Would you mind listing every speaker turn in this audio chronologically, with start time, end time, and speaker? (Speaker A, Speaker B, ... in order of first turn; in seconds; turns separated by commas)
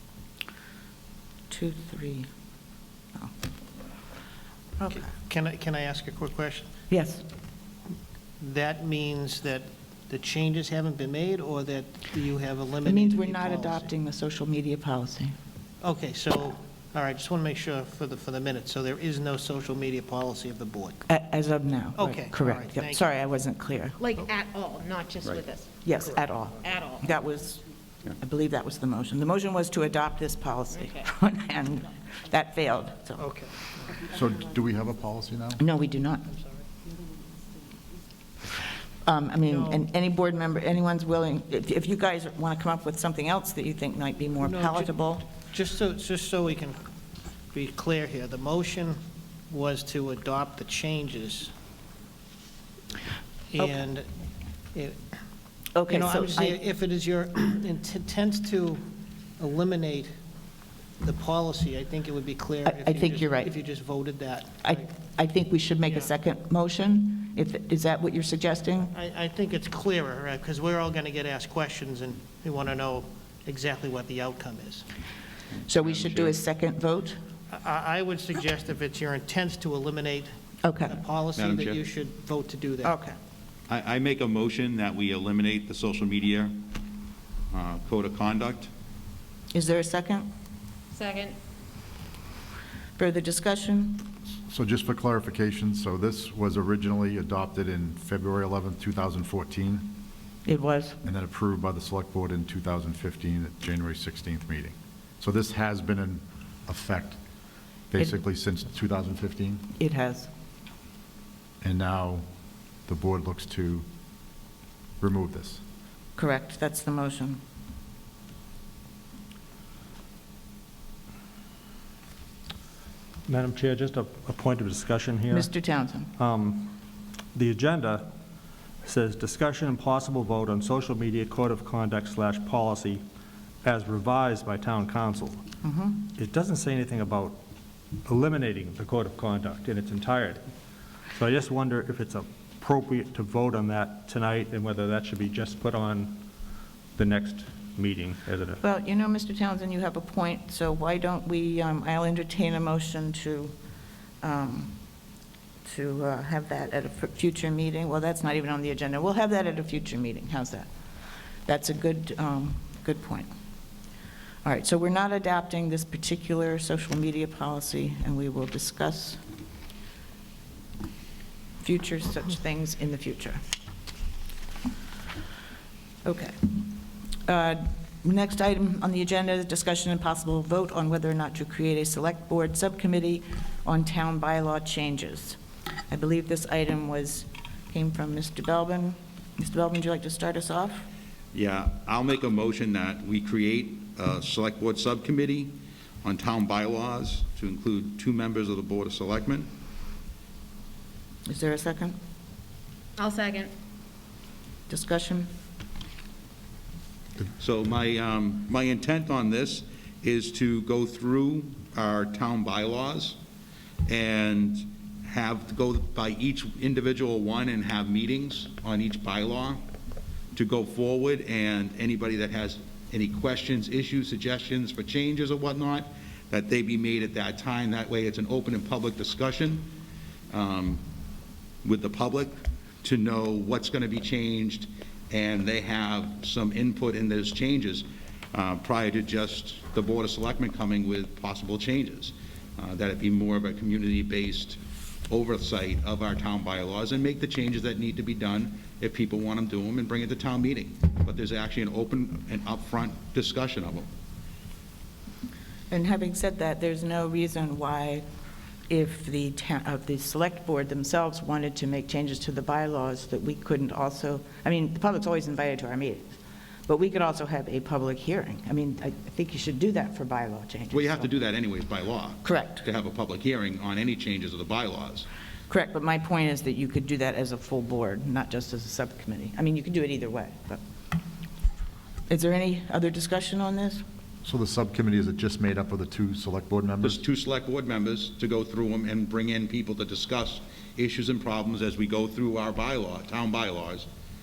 Speaker A: 1.5-2.3, Speaker B: 4.9-6.7, Speaker A: 6.9-7.2, Speaker B: 8.4-13.9, Speaker A: 12.8-15.3, Speaker B: 15.8-21.0, Speaker A: 21.1-24.0, Speaker B: 22.0-23.1, Speaker C: 24.0-27.2, Speaker A: 25.8-27.6, Speaker A: 28.2-33.2, Speaker B: 33.2-33.5, Speaker D: 34.1-35.6, Speaker A: 35.6-36.3, Speaker A: 39.0-45.3, Speaker B: 39.5-39.8, Speaker B: 44.4-44.9, Speaker B: 45.5-46.8, Speaker B: 47.5-49.0, Speaker B: 49.5-51.5, Speaker B: 53.5-54.1, Speaker B: 54.7-55.0, Speaker A: 55.8-56.6, Speaker B: 55.9-58.8, Speaker B: 59.4-60.1, Speaker B: 61.0-64.8, Speaker A: 62.7-63.5, Speaker A: 64.6-68.9, Speaker B: 68.9-74.8, Speaker A: 75.7-77.2, Speaker E: 75.8-76.3, Speaker B: 77.5-80.3, Speaker A: 80.6-81.0, Speaker B: 80.9-83.0, Speaker E: 81.3-81.8, Speaker A: 82.8-83.2, Speaker E: 83.7-86.6, Speaker E: 87.5-88.7, Speaker A: 89.5-90.3, Speaker C: 90.9-91.3, Speaker A: 93.0-94.1, Speaker D: 94.5-99.9, Speaker A: 100.5-101.0, Speaker D: 101.0-107.2, Speaker D: 107.9-109.7, Speaker A: 109.8-110.3, Speaker D: 111.6-112.2, Speaker D: 112.9-113.8, Speaker D: 115.0-115.6, Speaker A: 116.2-117.4, Speaker F: 123.3-125.5, Speaker A: 125.3-126.1, Speaker F: 126.2-126.7, Speaker F: 127.3-128.1, Speaker F: 128.8-133.0, Speaker F: 133.6-135.4, Speaker A: 135.6-136.0, Speaker F: 136.1-137.4, Speaker F: 138.1-140.4, Speaker F: 141.2-146.2, Speaker F: 147.0-148.6, Speaker A: 148.6-153.5, Speaker A: 154.2-154.8, Speaker A: 155.7-160.7, Speaker A: 161.5-163.3, Speaker A: 164.4-169.2, Speaker A: 171.6-173.4, Speaker A: 176.0-176.6, Speaker A: 177.2-185.4, Speaker A: 185.9-190.8, Speaker E: 191.3-199.5, Speaker A: 201.2-202.0, Speaker C: 203.0-203.5, Speaker A: 204.7-205.3, Speaker E: 207.4-213.2, Speaker E: 213.9-219.6, Speaker E: 220.3-229.7, Speaker E: 230.3-230.8, Speaker E: 231.6-253.9, Speaker A: 255.7-258.0, Speaker A: 258.7-266.1, Speaker A: 266.7-271.1, Speaker E: 270.7-275.1, Speaker A: 272.2-272.6, Speaker A: 275.5-280.6, Speaker A: 282.1-283.8, Speaker D: 284.2-287.0, Speaker E: 286.8-293.9